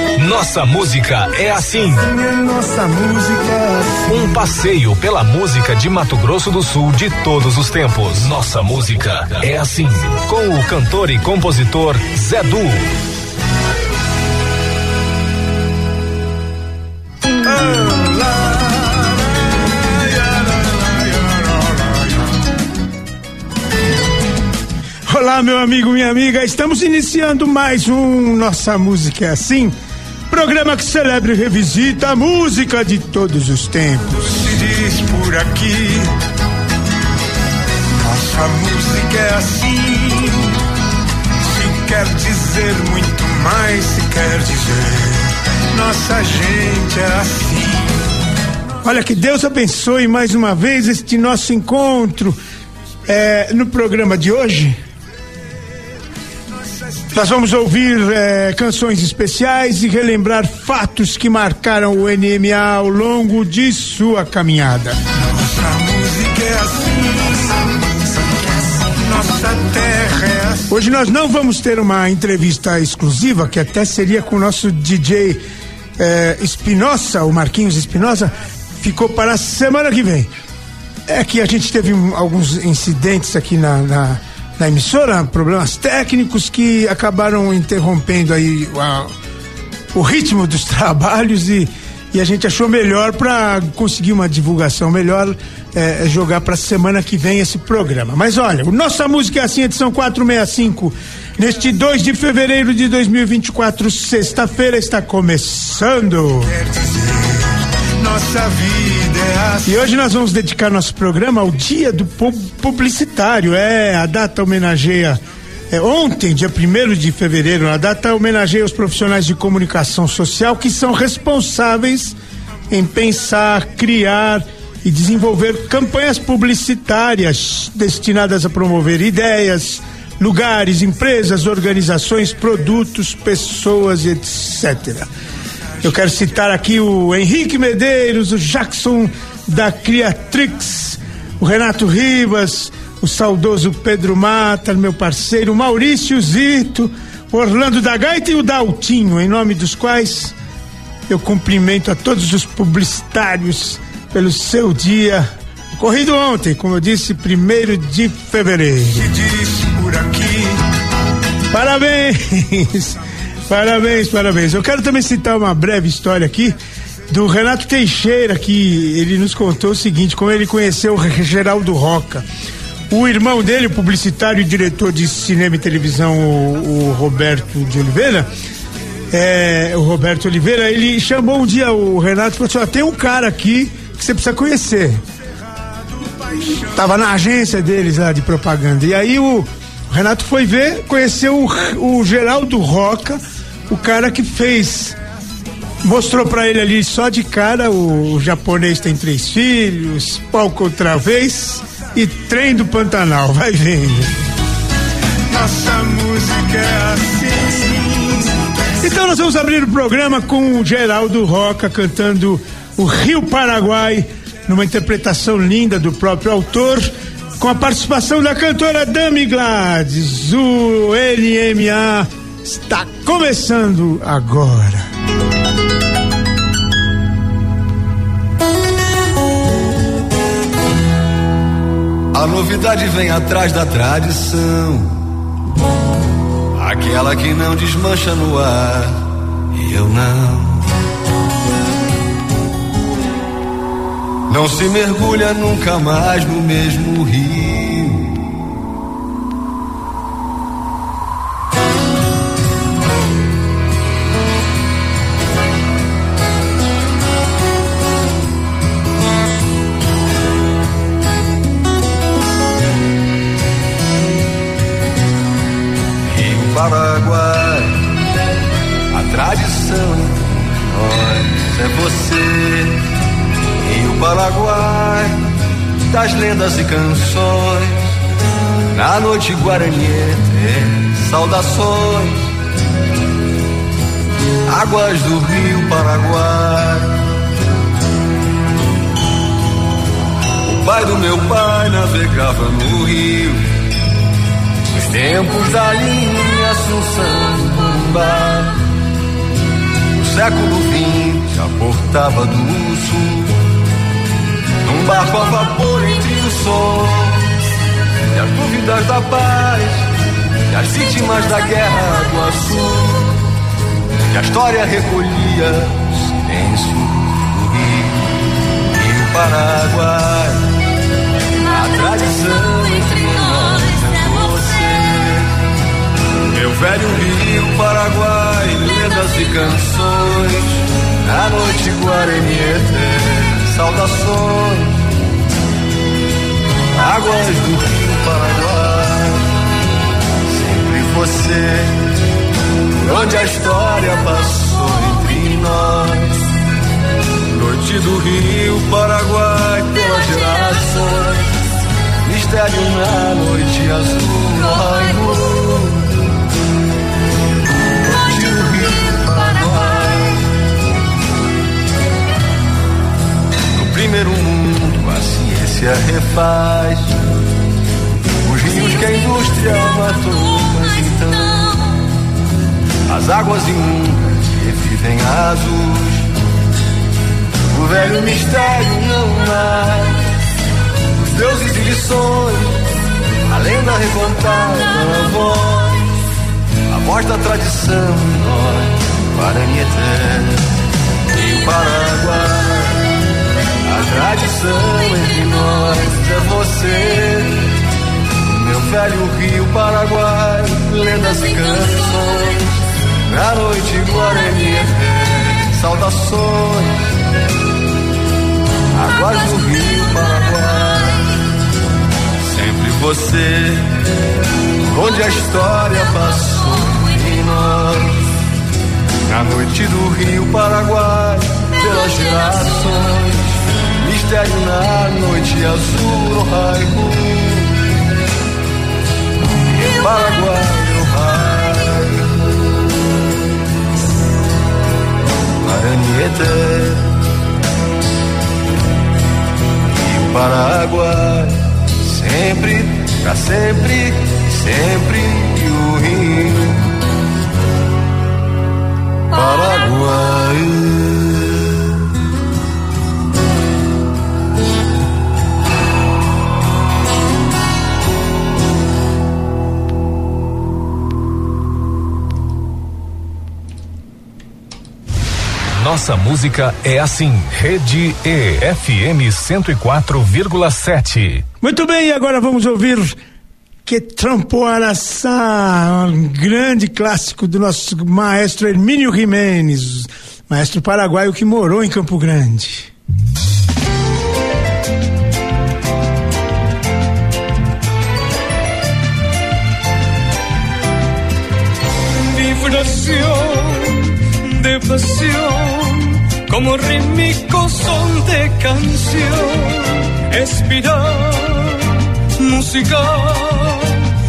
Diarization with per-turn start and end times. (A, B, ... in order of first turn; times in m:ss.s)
0:00.2-0:02.1 A
0:02.0-0:04.4 B
0:04.1-0:12.9 A
0:17.5-0:19.1 C
0:19.6-0:22.1 C
0:25.1-0:29.8 C
0:30.3-0:34.5 C
0:34.4-0:36.1 B
0:38.0-0:40.3 C
0:38.7-0:40.1 B
0:41.5-0:45.1 C
0:42.0-0:43.2 B
0:43.8-0:44.9 B
0:45.7-0:47.2 C
0:46.5-0:47.9 B
0:48.8-0:52.4 C
0:53.1-0:54.8 C
0:57.1-1:05.1 C
1:05.2-1:08.3 B
1:08.8-1:10.7 B
1:10.7-1:15.4 C
1:16.0-1:20.3 C
1:21.1-1:29.1 C
1:29.9-1:46.5 C
1:46.5-1:49.8 B
1:49.6-2:02.2 C
2:02.7-2:15.1 C
2:15.8-2:30.4 C
2:31.1-2:39.2 C
2:39.1-2:40.6 B
2:41.5-2:46.6 C
2:47.1-2:52.2 C
2:52.9-2:58.3 C
2:59.1-3:05.0 C
3:06.4-3:15.0 C
3:15.8-3:24.2 C
3:25.3-3:28.2 B
3:28.8-3:44.9 C
3:52.1-3:55.0 D
3:56.6-4:00.6 D
4:04.3-4:08.1 D
4:26.0-4:27.9 D
4:28.9-4:32.8 D
4:33.6-4:35.2 D
4:35.9-4:37.9 D
4:38.7-4:42.2 D
4:44.4-4:47.0 D
4:50.4-4:53.5 D
4:54.7-4:58.6 D
5:00.0-5:03.4 D
5:04.6-5:07.2 D
5:08.1-5:09.9 D
5:10.5-5:13.2 D
5:14.1-5:18.2 D
5:18.7-5:20.5 D
5:21.4-5:25.3 D
5:26.3-5:34.8 D
5:36.7-5:39.3 D
5:40.3-5:41.8 D
5:42.7-5:46.2 D
5:47.3-5:51.2 D
5:52.0-5:55.9 D
5:57.8-6:00.2 D
6:03.5-6:07.0 D
6:08.2-6:11.7 D
6:12.9-6:16.1 D
6:17.5-6:20.0 D
6:21.0-6:22.6 D
6:23.3-6:25.9 D
6:26.7-6:30.4 D
6:31.1-6:32.8 D
6:33.6-6:37.5 D
6:38.2-6:42.5 D
6:43.1-6:46.7 D
6:48.7-6:51.1 D
6:52.2-6:53.8 D
6:54.6-6:58.0 D
6:59.1-7:07.5 D
7:09.5-7:12.1 D
7:15.4-7:16.9 D
7:19.8-7:26.6 D
7:29.1-7:31.5 D
7:45.6-7:51.2 A
7:51.4-7:53.0 C
7:53.7-8:02.7 C
8:11.9-8:23.8 E